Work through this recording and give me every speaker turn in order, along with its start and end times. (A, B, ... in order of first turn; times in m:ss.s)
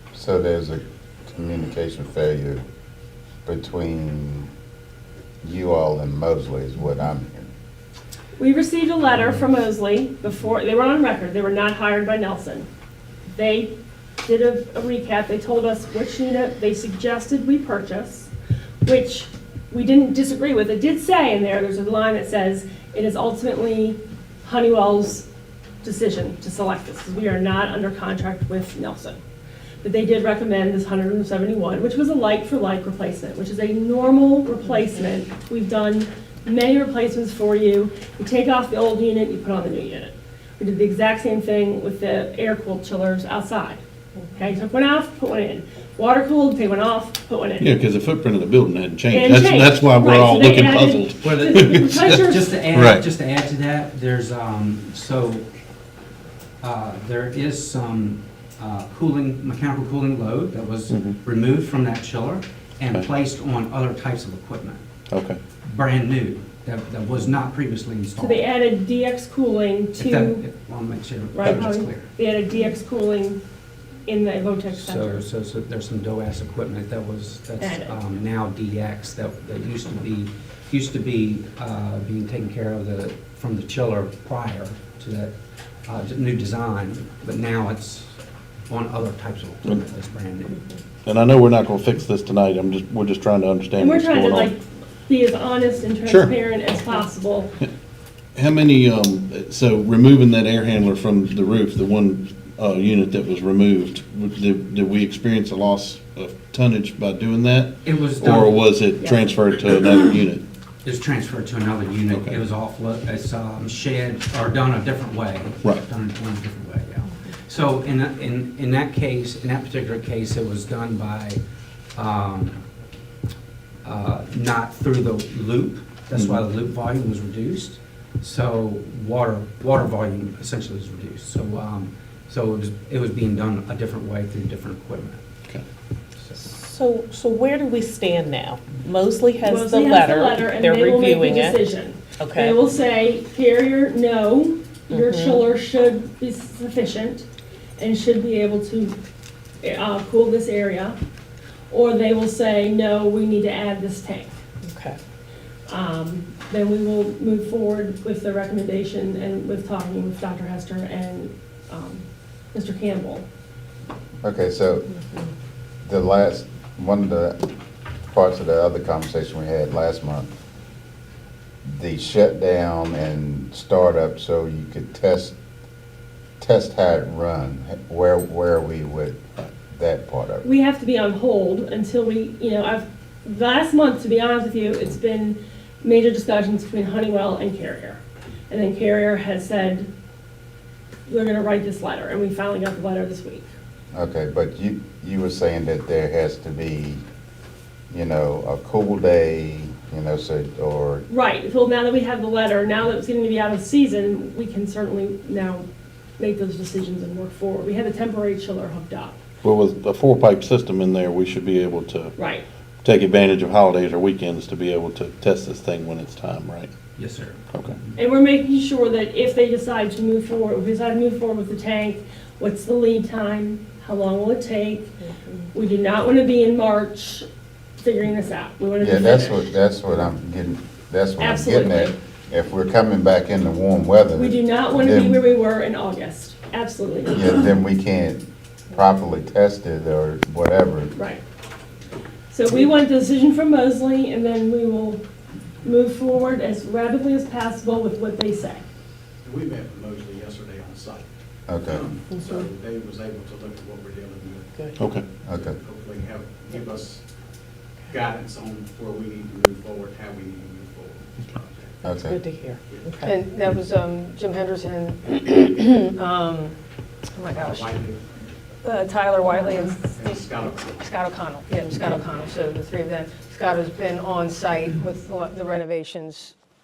0:00.1-0:02.6 A
0:03.4-0:04.5 A
0:05.4-0:07.5 A
0:08.4-0:12.7 B
0:13.3-0:18.3 B
0:18.8-0:25.2 B
0:25.8-0:29.2 B
0:29.8-0:43.8 B
0:44.3-0:47.7 B
0:47.6-0:52.2 C
0:49.1-0:52.6 B
0:51.2-0:55.4 D
0:52.7-0:53.0 C
0:56.6-1:04.8 D
1:00.9-1:01.2 C
1:05.1-1:05.4 C
1:05.6-1:08.5 D
1:08.2-1:10.4 B
1:09.9-1:12.1 D
1:11.3-1:13.4 B
1:14.1-1:15.2 B
1:14.7-1:25.3 D
1:17.6-1:18.0 B
1:25.9-1:28.1 D
1:28.7-1:30.6 D
1:31.0-1:34.5 C
1:33.8-1:37.5 B
1:36.0-1:36.3 C
1:38.3-1:50.4 C
1:47.8-1:48.7 D
1:49.0-1:49.3 B
1:50.8-2:01.4 D
1:52.1-1:52.4 C
2:02.0-2:02.6 D
2:03.8-2:15.2 D
2:06.1-2:06.4 C
2:16.4-2:21.6 E
2:19.4-2:27.2 B
2:22.2-2:22.6 E
2:24.9-2:25.4 E
2:27.8-2:28.9 B
2:29.6-2:31.0 B
2:31.7-2:34.3 B
2:34.6-2:35.0 E
2:35.7-2:43.2 B
2:44.2-2:44.9 A
2:45.8-2:47.5 A
2:48.1-2:50.3 A
2:51.6-2:55.3 A
2:56.4-3:00.4 A
3:00.4-3:08.0 B
3:08.5-3:09.9 B
3:11.1-3:13.5 B
3:13.9-3:17.0 A
3:17.9-3:21.0 A
3:21.1-3:25.6 B
3:26.2-3:29.2 B
3:29.4-3:32.2 C
3:32.2-3:32.4 B
3:32.8-3:36.7 C
3:37.0-3:38.0 D
3:38.0-3:44.9 B
3:45.5-3:47.2 B
3:47.8-3:49.4 B
3:48.8-3:55.2 A
3:51.2-3:51.9 B
3:54.2-3:57.5 B
3:57.1-4:00.9 A
4:00.9-4:01.2 B
4:02.3-4:05.0 B
4:05.6-4:08.6 B
4:09.2-4:11.1 F
4:11.5-4:11.8 A
4:11.6-4:14.5 F
4:12.1-4:12.4 E
4:14.8-4:15.0 C
4:15.2-4:15.5 A
4:15.3-4:17.0 F
4:17.9-4:21.8 F
4:21.8-4:22.2 A
4:21.9-4:23.2 E
4:22.6-4:23.0 F
4:23.0-4:26.6 G
4:27.2-4:27.6 G
4:27.3-4:28.0 F
4:28.6-4:30.2 G
4:29.9-4:30.8 F
4:30.8-4:36.3 G